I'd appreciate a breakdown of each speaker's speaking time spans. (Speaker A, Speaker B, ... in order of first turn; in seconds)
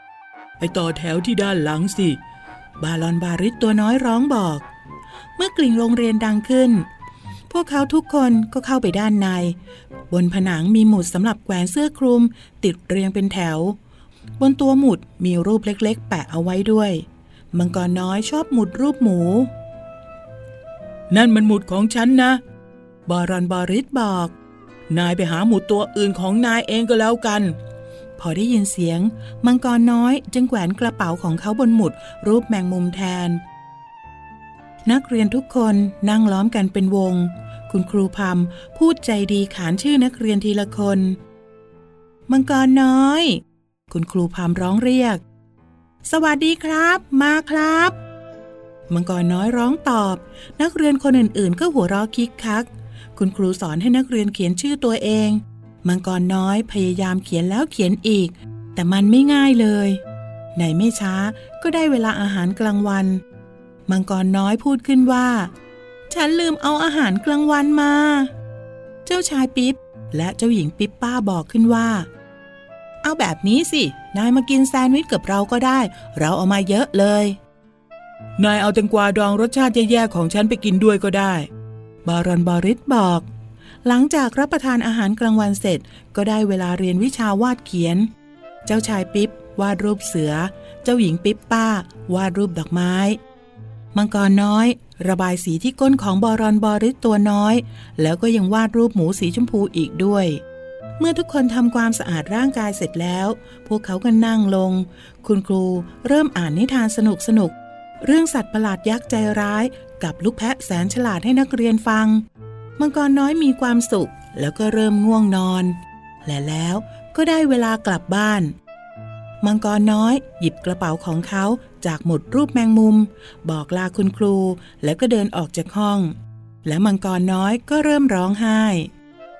Speaker A: 0.6-2.2, 2.8-4.6, 5.4-6.8, 7.5-9.6, 10.1-13.8, 14.4-19.5, 21.1-22.4, 23.1-24.3, 24.9-27.6, 28.2-33.4, 34.9-41.2, 42.3-45.2, 46.0-47.9, 48.9-60.0, 60.5-63.2, 63.9-65.5, 66.1-68.3, 69.0-72.1, 73.0-77.4, 78.4-81.5, 82.0-83.2, 83.8-88.1, 88.7-93.2, 93.9-100.4, 101.0-112.2, 112.8-118.5, 119.4-126.1, 126.6-128.9